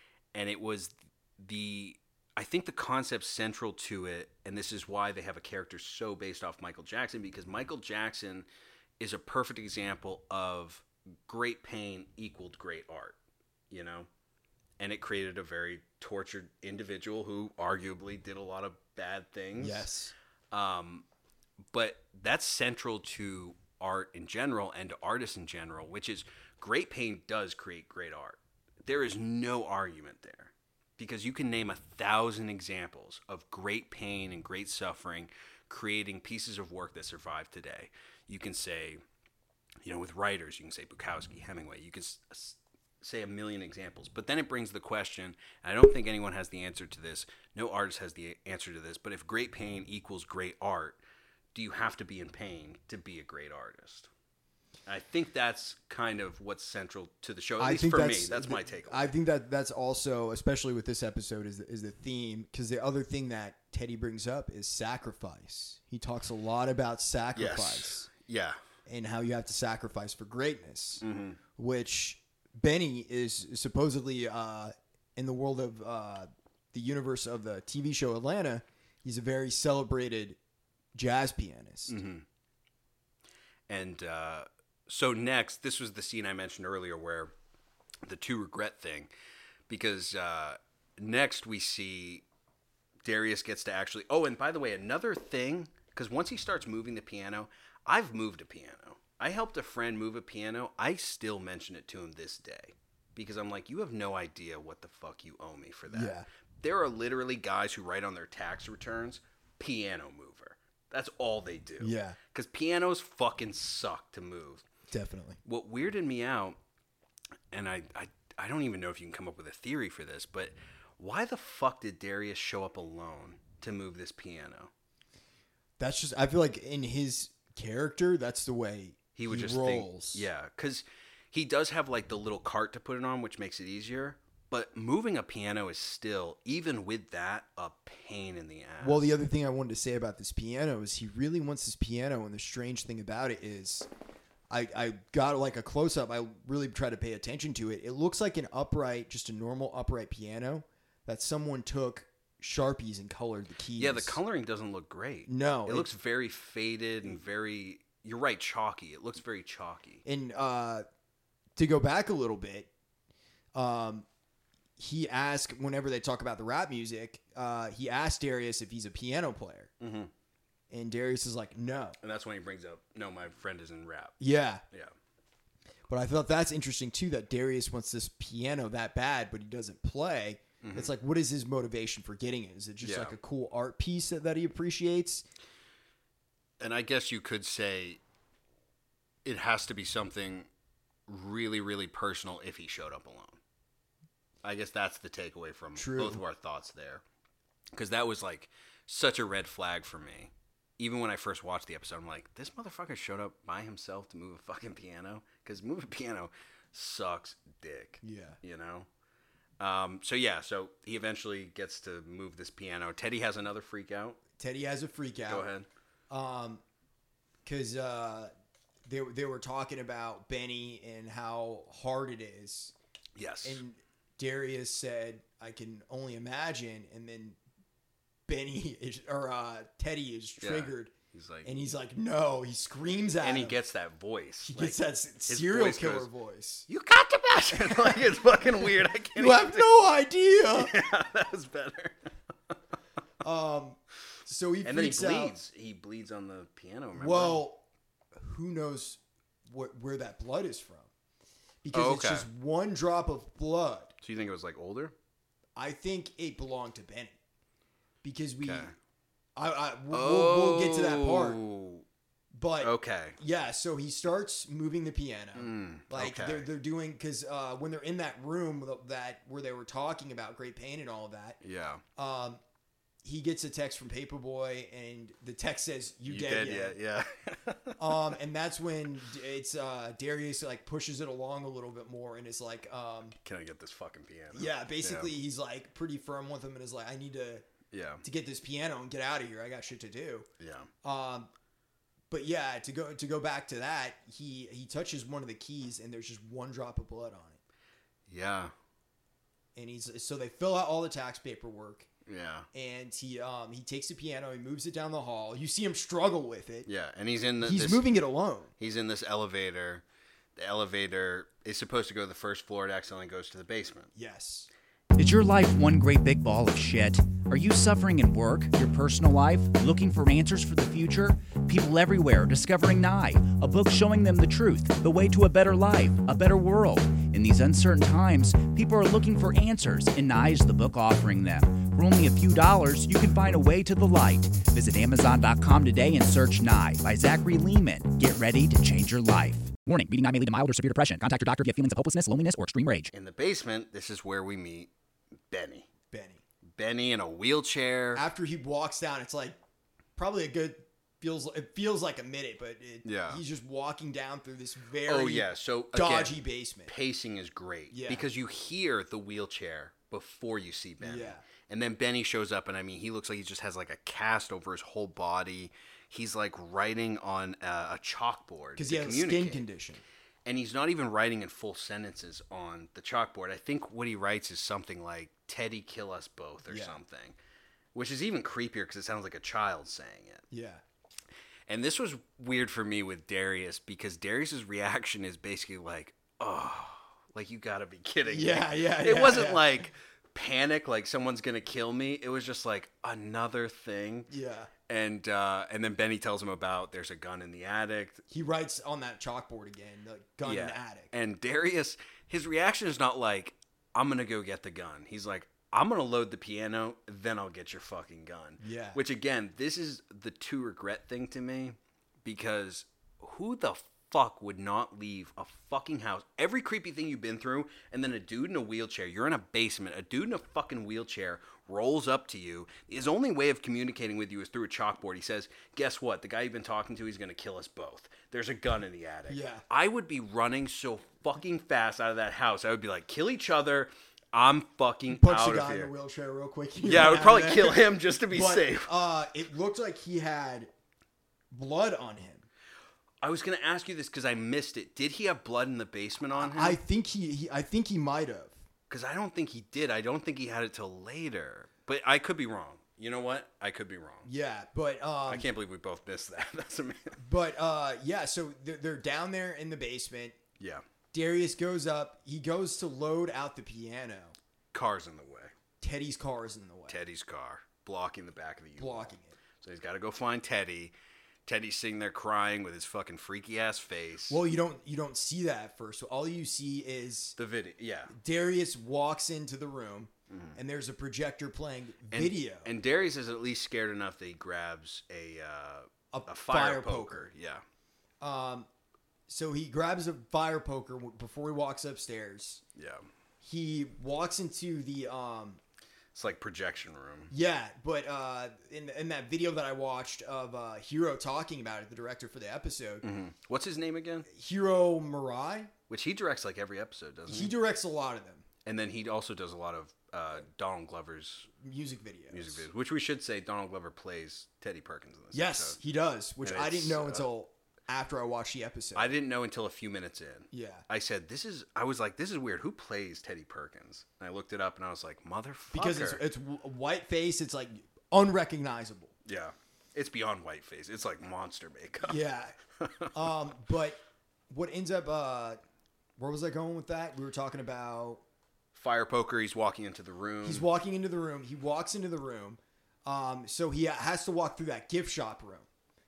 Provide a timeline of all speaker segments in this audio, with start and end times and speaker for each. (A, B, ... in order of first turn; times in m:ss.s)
0:00.3-0:08.5 A
0:09.0-0:13.2 A
0:13.7-0:14.1 A
0:14.8-0:19.9 A
0:19.6-0:20.1 B
0:20.5-0:21.0 A
0:21.7-0:39.0 A
0:39.8-0:51.0 A
0:51.5-0:54.1 A
0:54.8-0:59.1 A
0:57.6-1:08.1 B
1:07.3-1:08.6 A
1:08.8-1:11.0 B
1:11.0-1:11.4 A
1:11.6-1:20.4 B
1:20.9-1:22.0 B
1:21.9-1:22.2 A
1:23.7-1:27.3 A
1:28.0-1:29.1 A
1:29.7-1:32.2 A
1:33.0-1:54.6 A
1:45.9-1:46.2 B
1:51.8-1:52.2 B
1:54.9-1:55.4 B
1:55.4-1:56.6 A
1:57.5-2:04.7 A
2:05.8-2:10.2 B
2:09.2-2:19.1 A
2:18.8-2:23.9 B
2:24.5-2:34.2 B
2:33.8-2:40.0 A
2:35.3-2:35.9 B
2:40.0-2:40.8 B
2:41.6-2:42.7 B
2:43.5-2:44.0 B
2:44.8-2:49.7 B
2:49.8-2:50.1 A
2:50.7-2:52.0 B
2:52.0-2:54.9 A
2:54.2-2:54.6 B
2:55.9-3:05.2 B
3:00.6-3:00.9 A
3:02.8-3:03.1 A
3:06.6-3:08.0 A
3:09.2-3:10.5 A
3:11.1-3:13.4 A
3:14.4-3:17.0 A
3:15.8-3:16.2 B
3:17.7-3:28.9 A
3:28.0-3:28.4 B
3:29.6-3:34.2 A
3:34.4-3:35.5 B
3:35.3-3:35.7 A
3:36.1-3:36.6 B
3:37.4-3:38.3 B
3:38.8-3:42.7 B
3:43.2-3:43.6 A
3:43.4-3:47.4 B
3:48.3-3:50.9 B
3:50.4-3:51.5 A
3:51.4-3:53.6 B
3:53.2-3:56.1 A
3:54.4-3:56.7 B
3:56.7-3:59.8 A
3:57.5-3:58.0 B
3:59.2-4:00.7 B
4:00.5-4:02.5 A
4:03.2-4:05.3 B
4:04.6-4:07.4 A
4:06.9-4:07.6 B
4:08.1-4:10.9 B
4:11.6-4:13.9 B
4:11.7-4:12.3 A
4:14.0-4:14.9 A
4:15.6-4:17.1 B
4:18.0-4:18.7 B
4:18.4-4:18.7 A
4:19.4-4:21.4 B
4:19.9-4:21.8 A
4:22.3-4:31.4 B
4:22.6-4:23.2 A
4:25.3-4:26.5 A
4:31.4-4:31.8 A
4:32.0-4:32.4 B
4:33.0-4:36.8 B
4:36.0-4:37.9 A
4:37.8-4:43.2 B
4:43.2-4:45.1 A
4:44.3-4:47.4 B
4:47.7-4:48.0 A
4:48.0-4:50.3 B
4:50.4-4:50.7 A
4:50.8-4:51.3 B
4:52.1-4:57.4 B
4:58.1-4:58.5 A
4:59.6-5:01.9 B
5:02.0-5:02.5 A
5:02.5-5:06.7 B
5:06.6-5:07.8 A
5:07.4-5:08.5 B
5:08.6-5:09.8 A
5:10.4-5:13.9 A
5:13.9-5:14.5 B
5:15.0-5:42.9 C
5:42.9-5:44.7 A
5:45.3-5:45.7 A
5:45.9-5:46.2 B
5:46.5-5:48.0 A
5:47.9-5:49.4 B
5:50.0-5:56.7 B
5:52.8-5:53.2 A
5:54.8-6:09.4 A
5:57.7-5:58.1 B
6:00.8-6:01.2 B
6:08.6-6:09.8 B
6:10.2-6:17.2 A
6:16.4-6:16.8 B
6:17.7-6:20.3 A
6:20.3-6:20.6 B
6:21.5-6:34.1 A
6:28.1-6:29.6 B
6:34.1-6:34.5 B
6:34.7-6:38.0 A
6:38.1-6:40.9 B
6:40.2-7:15.7 A
6:48.4-6:48.8 B
7:09.1-7:09.4 B
7:14.9-7:20.5 B
7:16.6-7:18.7 A
7:21.3-7:22.3 B
7:23.0-7:26.6 A
7:26.1-7:28.4 B
7:28.7-7:34.1 A
7:34.0-7:35.3 B
7:35.1-7:37.0 A
7:37.0-7:40.2 B
7:40.4-7:40.6 A
7:40.9-7:44.2 B
7:44.5-7:45.3 A
7:45.6-7:46.8 B
7:46.7-7:50.7 A
7:48.6-7:49.2 B
7:51.2-7:54.2 A
7:54.1-7:57.2 B
7:57.2-7:57.9 A
7:57.9-8:02.5 B
8:00.1-8:00.4 A
8:01.9-8:07.4 A
8:05.9-8:07.1 B
8:08.0-8:08.5 B
8:09.1-8:12.4 B
8:12.5-8:12.8 A
8:13.2-8:15.4 B
8:15.9-8:17.1 A
8:17.1-8:22.8 B
8:22.8-8:24.1 A
8:24.1-8:25.5 B
8:25.7-8:27.3 A
8:27.1-8:28.2 B
8:28.4-8:31.3 A
8:31.4-8:32.4 B
8:32.1-8:35.6 A
8:35.1-8:38.9 B
8:36.2-8:37.0 A
8:38.7-8:46.0 A
8:40.3-8:40.6 B
8:45.5-8:48.9 B
8:49.0-8:52.0 A
8:51.8-8:52.4 B
8:52.6-8:52.9 A
8:52.9-8:55.4 B
8:56.0-8:58.0 B
8:58.5-9:00.5 A
9:00.2-9:05.5 B